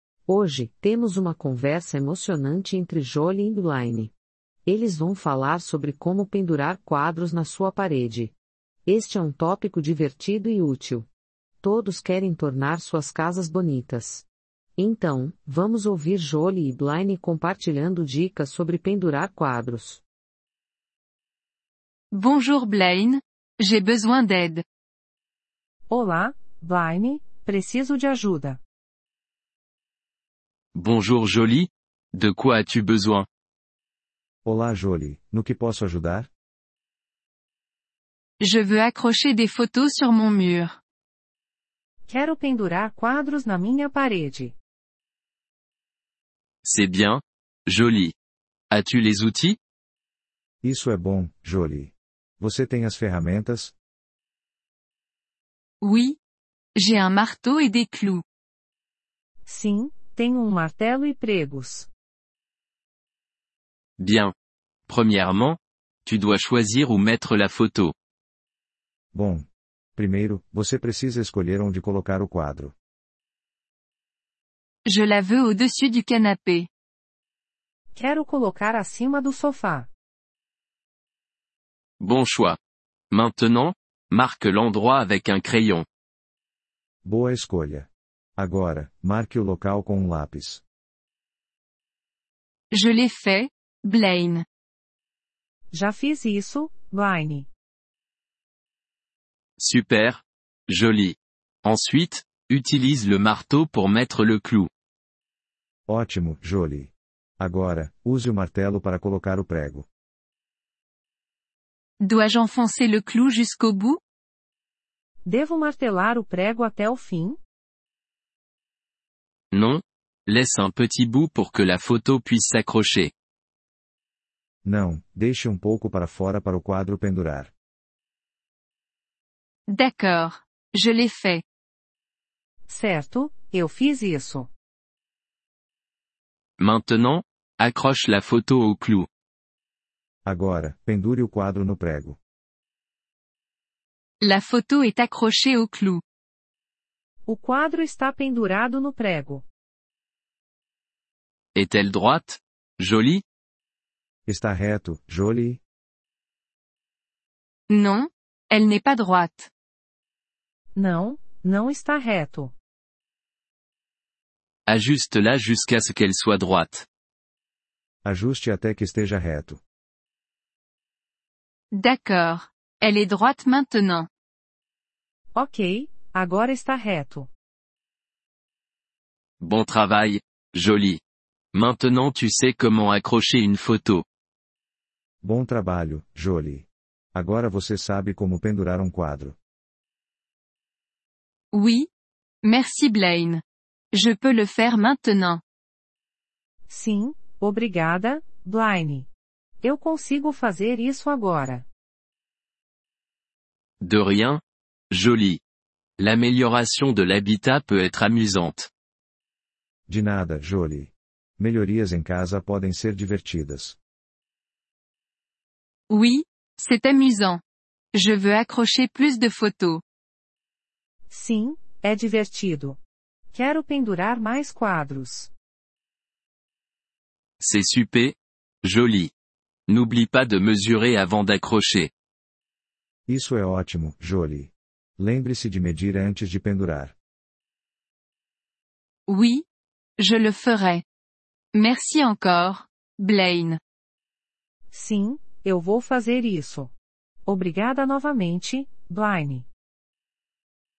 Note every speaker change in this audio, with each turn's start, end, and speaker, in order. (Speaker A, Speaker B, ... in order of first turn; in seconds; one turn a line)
Speaker A: 0.3-4.1
Speaker A: 4.7-8.3
Speaker A: 8.9-11.1
Speaker A: 11.6-14.3
Speaker A: 14.8-20.0
Speaker B: 22.1-24.6
Speaker C: 25.9-28.6
Speaker D: 30.8-33.3
Speaker E: 34.5-36.3
Speaker B: 38.4-40.8
Speaker C: 42.1-44.5
Speaker D: 46.6-48.1
Speaker D: 48.7-49.6
Speaker E: 50.6-53.8
Speaker B: 55.8-56.2
Speaker B: 56.8-58.2
Speaker C: 59.5-61.9
Speaker D: 64.0-64.3
Speaker D: 64.9-67.9
Speaker E: 69.1-69.5
Speaker E: 70.0-72.8
Speaker B: 74.9-76.7
Speaker C: 78.0-79.9
Speaker D: 82.0-82.6
Speaker D: 83.1-85.9
Speaker E: 87.0-90.6
Speaker B: 92.7-94.5
Speaker C: 95.7-97.5
Speaker D: 99.6-104.7
Speaker E: 105.9-109.9
Speaker B: 112.0-114.0
Speaker C: 115.2-117.4
Speaker D: 119.5-123.1
Speaker E: 124.7-127.5
Speaker B: 129.7-131.4
Speaker C: 132.7-134.5
Speaker D: 136.6-139.1
Speaker E: 140.3-142.2
Speaker B: 144.2-146.0
Speaker C: 147.3-149.4
Speaker D: 151.6-153.2
Speaker E: 154.3-155.6
Speaker B: 157.7-159.5
Speaker C: 160.8-162.5
Speaker D: 164.7-166.9
Speaker E: 168.1-169.6
Speaker B: 171.7-174.1
Speaker C: 175.3-177.3
Speaker D: 179.4-181.0
Speaker D: 181.5-184.0
Speaker E: 185.2-189.4
Speaker B: 191.5-191.9
Speaker B: 192.4-193.4
Speaker B: 193.9-195.4
Speaker C: 196.7-199.1
Speaker C: 199.6-201.7
Speaker D: 203.8-205.4
Speaker D: 206.0-208.7
Speaker E: 209.9-213.8
Speaker B: 215.9-217.4
Speaker B: 217.9-219.8
Speaker C: 221.1-222.8
Speaker C: 223.3-225.3
Speaker D: 227.4-229.1
Speaker D: 229.7-231.9
Speaker E: 233.1-236.9
Speaker B: 239.1-239.4
Speaker B: 240.0-240.8
Speaker B: 241.5-243.6
Speaker C: 244.7-246.7
Speaker C: 247.3-249.5